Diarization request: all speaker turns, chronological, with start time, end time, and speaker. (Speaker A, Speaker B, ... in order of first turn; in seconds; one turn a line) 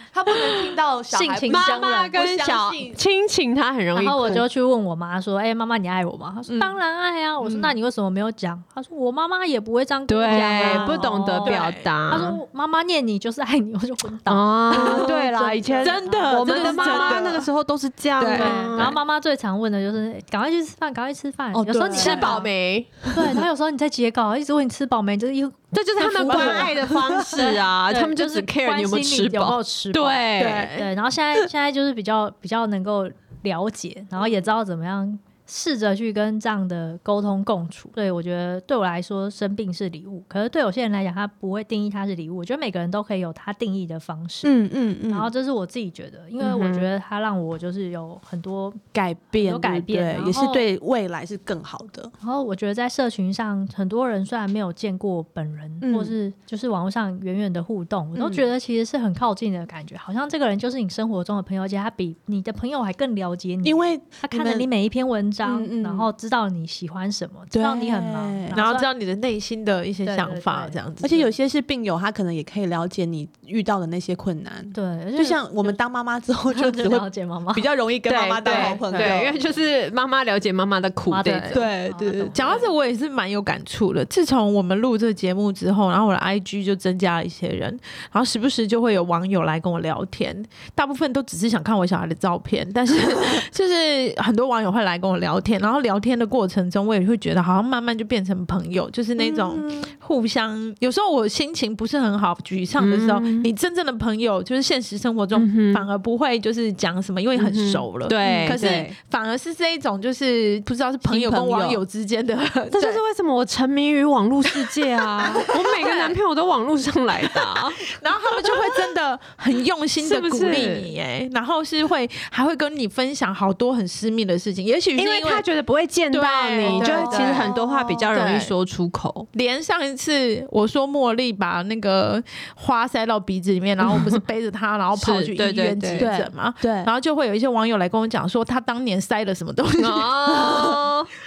Speaker A: 0.1-3.0
Speaker B: 1.1-2.1
Speaker C: 1.5-4.4
Speaker B: 3.9-17.1
Speaker A: 6.5-6.8
Speaker C: 10.1-12.4
Speaker A: 10.3-11.2
Speaker D: 11.4-11.8
Speaker C: 14.3-19.0
Speaker D: 14.7-15.2
Speaker A: 14.7-15.8
Speaker D: 15.8-17.5
Speaker A: 16.5-17.4
Speaker D: 18.2-18.9
Speaker B: 18.3-22.5
Speaker A: 21.5-22.4
Speaker C: 21.9-23.0
Speaker B: 23.1-26.8
Speaker A: 23.1-23.4
Speaker C: 25.7-30.9
Speaker D: 26.1-26.8
Speaker A: 26.2-27.4
Speaker B: 27.3-44.5
Speaker A: 44.4-45.3
Speaker B: 45.1-48.8
Speaker C: 46.4-46.9
Speaker A: 48.9-52.1
Speaker B: 49.4-50.6
Speaker B: 52.2-68.9
Speaker A: 55.8-56.1
Speaker A: 58.1-58.4
Speaker A: 63.6-64.7
Speaker A: 65.4-66.1
Speaker A: 67.5-68.6
Speaker D: 68.5-71.3
Speaker B: 70.0-70.8
Speaker A: 71.0-79.4
Speaker B: 74.7-75.8
Speaker B: 76.5-77.7
Speaker C: 78.0-81.6
Speaker D: 78.5-79.2
Speaker B: 81.1-82.7
Speaker A: 81.5-82.4
Speaker D: 82.3-113.0
Speaker A: 99.2-99.9
Speaker C: 102.8-103.5
Speaker C: 105.3-105.8
Speaker C: 107.3-108.9
Speaker A: 108.2-108.7
Speaker A: 111.0-111.8
Speaker C: 112.7-118.7
Speaker D: 114.4-116.2
Speaker D: 117.2-125.5
Speaker C: 120.0-120.9
Speaker C: 125.0-129.3
Speaker D: 126.1-127.6
Speaker A: 126.6-128.2
Speaker D: 128.1-128.5
Speaker D: 129.3-140.8
Speaker C: 133.8-134.2
Speaker C: 134.9-136.1
Speaker A: 135.9-136.9
Speaker C: 139.8-141.1